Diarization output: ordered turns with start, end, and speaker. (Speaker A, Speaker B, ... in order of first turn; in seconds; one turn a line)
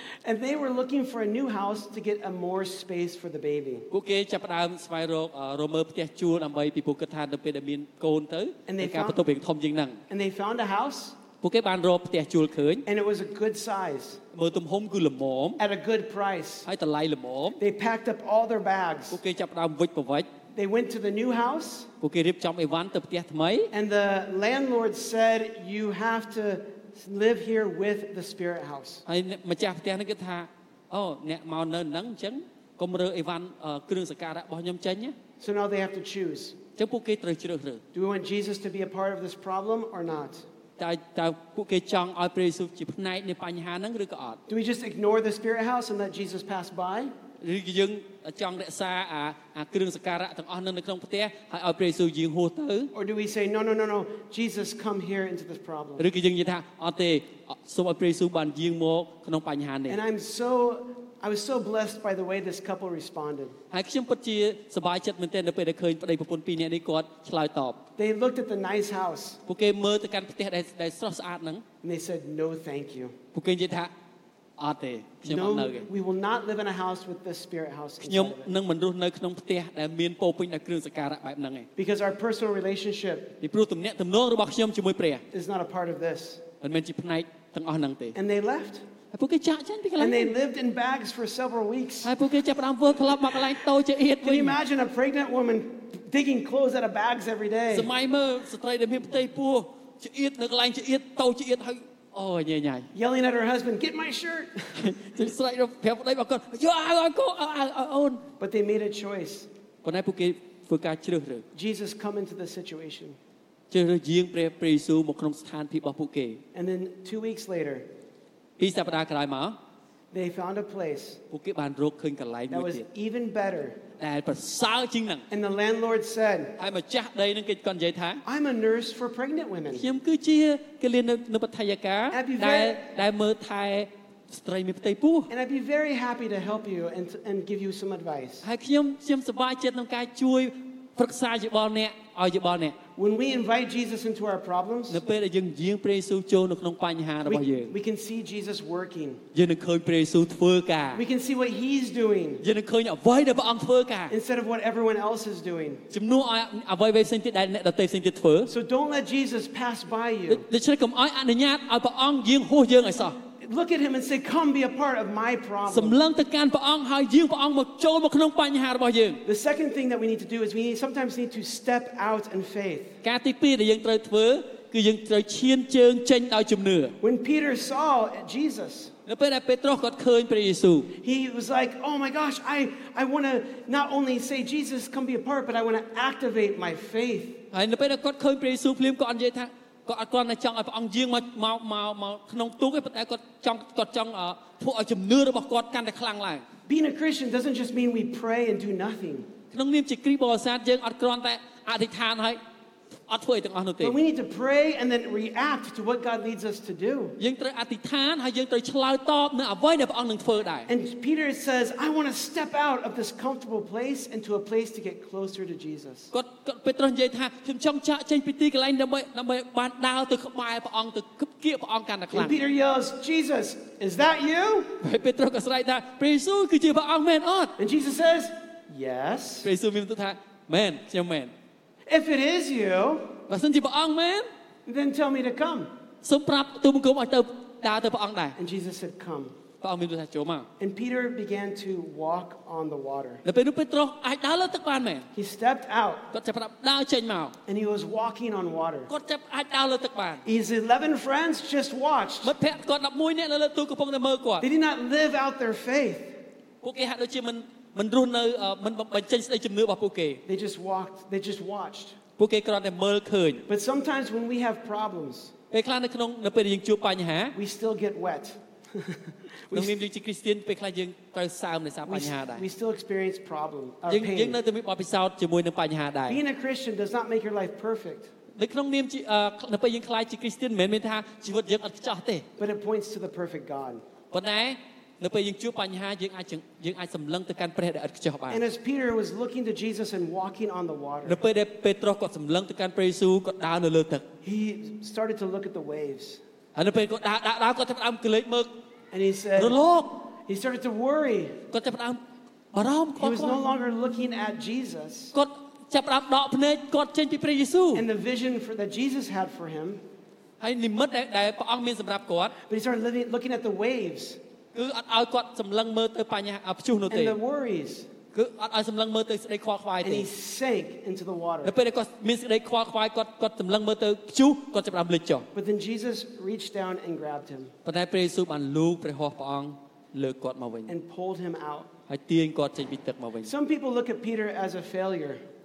Speaker A: 0.2-3.9
Speaker B: 3.9-10.0
Speaker A: 8.7-9.2
Speaker A: 10.1-11.2
Speaker B: 11.4-12.8
Speaker A: 12.9-14.2
Speaker B: 14.3-15.6
Speaker A: 15.6-16.7
Speaker B: 16.7-17.6
Speaker A: 17.6-19.2
Speaker B: 19.1-20.3
Speaker A: 20.6-21.9
Speaker B: 22.0-23.7
Speaker A: 23.7-29.0
Speaker B: 29.1-35.1
Speaker A: 35.4-36.6
Speaker B: 36.8-37.8
Speaker A: 37.9-40.5
Speaker B: 40.8-44.4
Speaker A: 44.5-47.1
Speaker B: 47.4-52.9
Speaker A: 52.9-56.1
Speaker B: 56.0-60.0
Speaker A: 59.9-63.6
Speaker B: 63.7-67.8
Speaker A: 68.0-69.4
Speaker B: 69.5-71.6
Speaker A: 71.8-73.2
Speaker B: 73.3-73.9
Speaker B: 74.6-75.9
Speaker A: 75.3-78.5
Speaker B: 78.0-81.7
Speaker A: 81.8-83.4
Speaker B: 83.4-85.2
Speaker A: 85.3-86.4
Speaker B: 86.6-88.2
Speaker A: 88.2-88.8
Speaker B: 89.1-90.3
Speaker A: 90.0-92.1
Speaker B: 92.0-94.6
Speaker A: 94.2-97.9
Speaker B: 97.7-102.9
Speaker A: 102.9-105.0
Speaker B: 104.8-108.2
Speaker A: 108.4-109.5
Speaker B: 109.8-111.5
Speaker A: 111.5-113.2
Speaker B: 113.7-116.4
Speaker A: 116.5-117.9
Speaker B: 118.6-119.6
Speaker A: 120.1-121.2
Speaker B: 121.3-122.9
Speaker A: 122.5-123.8
Speaker B: 124.0-125.3
Speaker A: 125.3-126.5
Speaker B: 126.6-128.2
Speaker A: 128.2-129.8
Speaker B: 129.7-135.3
Speaker A: 132.1-132.8
Speaker A: 135.3-138.4
Speaker B: 138.4-142.8
Speaker A: 143.0-145.0
Speaker B: 144.9-147.7
Speaker A: 147.2-149.2
Speaker B: 149.3-151.0
Speaker A: 150.9-152.4
Speaker B: 152.4-154.1
Speaker A: 154.1-155.8
Speaker B: 155.9-158.5
Speaker A: 158.5-160.4
Speaker B: 160.3-163.2
Speaker A: 163.4-166.0
Speaker B: 165.7-169.2
Speaker A: 169.2-172.9
Speaker B: 173.0-176.9
Speaker A: 177.0-178.9
Speaker B: 179.1-180.9
Speaker A: 181.0-187.4
Speaker B: 187.5-196.4
Speaker A: 196.7-199.3
Speaker B: 199.5-202.4
Speaker B: 203.1-204.0
Speaker A: 203.8-207.2
Speaker B: 207.2-210.7
Speaker A: 210.7-216.1
Speaker B: 216.1-222.4
Speaker A: 222.1-224.8
Speaker B: 224.8-227.6
Speaker A: 227.6-229.5
Speaker B: 229.4-231.3
Speaker A: 231.9-233.2
Speaker B: 233.3-234.3
Speaker A: 234.7-235.7
Speaker B: 236.0-238.4
Speaker A: 238.4-239.3
Speaker B: 239.6-240.5
Speaker A: 240.6-243.2
Speaker B: 243.2-245.1
Speaker A: 245.2-246.1
Speaker B: 246.1-247.3
Speaker A: 247.5-248.9
Speaker B: 248.9-250.2
Speaker A: 250.2-252.3
Speaker B: 252.2-254.5
Speaker A: 254.4-256.2
Speaker B: 256.6-260.2
Speaker A: 260.3-262.0
Speaker B: 262.2-263.4
Speaker A: 263.5-265.3
Speaker B: 265.5-267.4
Speaker A: 267.3-269.8
Speaker B: 269.5-272.4
Speaker A: 271.9-274.4
Speaker B: 273.9-276.2
Speaker A: 276.1-278.1
Speaker B: 278.4-282.3
Speaker A: 282.4-283.8
Speaker B: 284.1-288.4
Speaker A: 288.3-291.2
Speaker B: 291.1-294.1
Speaker A: 294.2-296.2
Speaker B: 296.6-298.5
Speaker A: 298.9-301.4
Speaker B: 299.4-300.0
Speaker B: 301.5-302.0
Speaker B: 302.5-303.4
Speaker A: 303.0-305.1
Speaker B: 305.1-307.9
Speaker A: 307.7-309.8
Speaker B: 310.4-312.4
Speaker A: 312.4-314.2
Speaker B: 314.5-317.2
Speaker A: 316.9-317.9
Speaker B: 318.1-320.1
Speaker A: 319.8-321.5
Speaker B: 321.4-325.3
Speaker A: 325.4-327.5
Speaker B: 327.6-330.7
Speaker A: 330.7-331.7
Speaker B: 331.9-333.3
Speaker A: 333.2-335.2